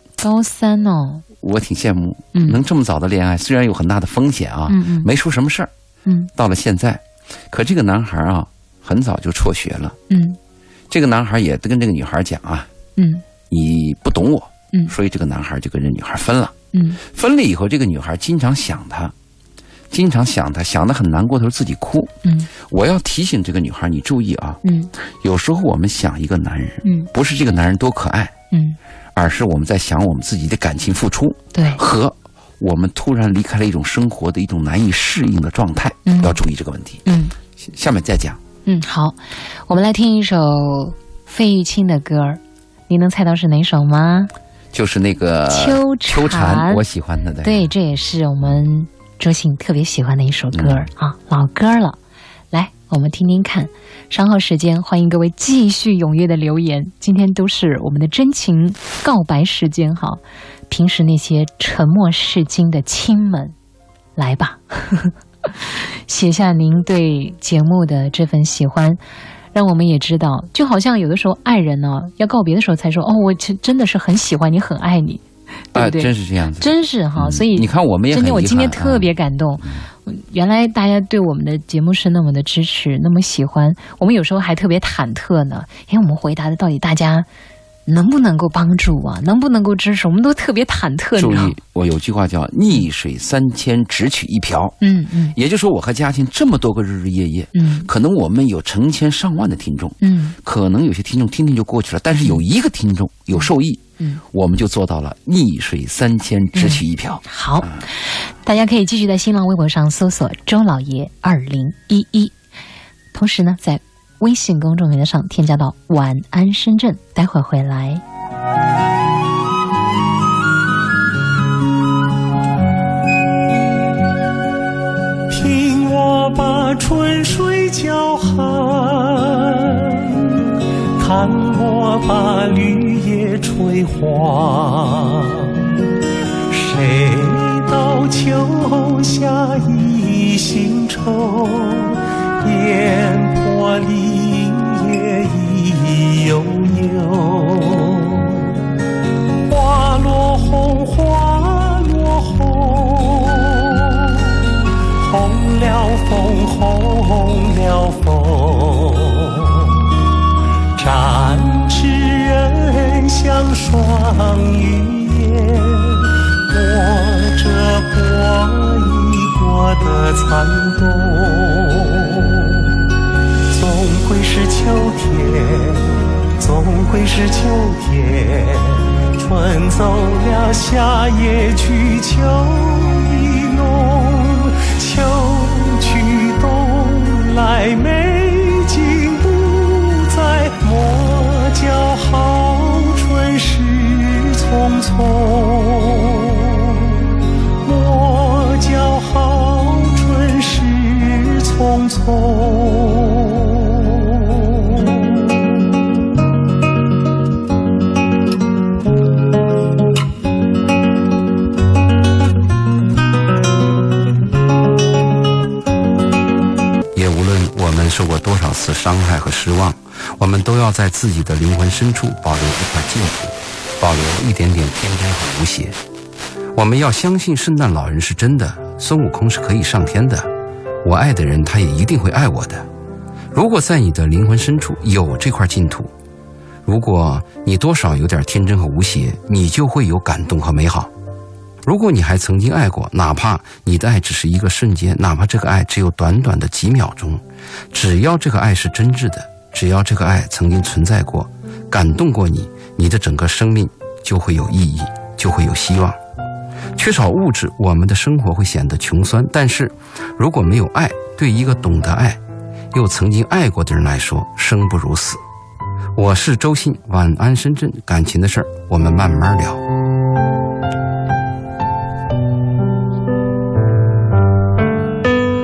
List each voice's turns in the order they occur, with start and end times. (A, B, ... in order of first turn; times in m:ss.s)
0:00.2-0:01.2 A
0:01.4-0:05.7 B
0:02.3-0:02.6 A
0:04.7-0:05.1 A
0:06.4-0:10.0 B
0:10.1-0:10.4 A
0:10.9-0:12.7 B
0:13.0-0:13.2 A
0:13.5-0:19.1 B
0:16.7-0:17.0 A
0:19.9-0:24.6 B
0:22.2-0:22.5 A
0:24.6-0:24.9 A
0:25.2-0:28.3 B
0:26.8-0:27.1 A
0:28.5-0:28.8 A
0:29.1-0:37.0 B
0:31.5-0:31.8 A
0:36.0-0:36.4 A
0:37.1-0:37.4 A
0:37.6-0:38.4 B
0:38.7-0:44.3 A
0:44.7-0:47.7 B
0:45.5-0:46.8 A
0:47.4-0:52.0 A
0:50.5-0:50.9 B
0:52.5-1:03.6 A
1:04.2-1:09.0 A
1:09.5-1:27.3 A
1:15.7-1:19.1 B
1:27.9-1:31.6 A
1:31.2-1:34.8 B
1:34.8-1:35.4 A
1:35.4-1:47.8 B
1:37.5-1:37.9 A
1:40.0-1:40.4 A
1:43.4-1:44.2 A
1:46.6-1:52.4 A
1:53.1-1:58.0 A
2:05.3-2:15.7 C
2:16.5-2:28.6 C
2:29.4-2:39.9 C
2:40.8-2:52.8 C
2:53.5-3:25.3 C
3:36.9-3:45.8 D
3:46.6-3:50.3 D
3:50.8-3:52.7 D
3:53.3-3:55.9 D
3:56.6-4:00.9 D
4:01.6-4:16.0 D
4:16.8-4:22.2 D
4:22.7-4:25.2 D
4:26.0-4:29.6 D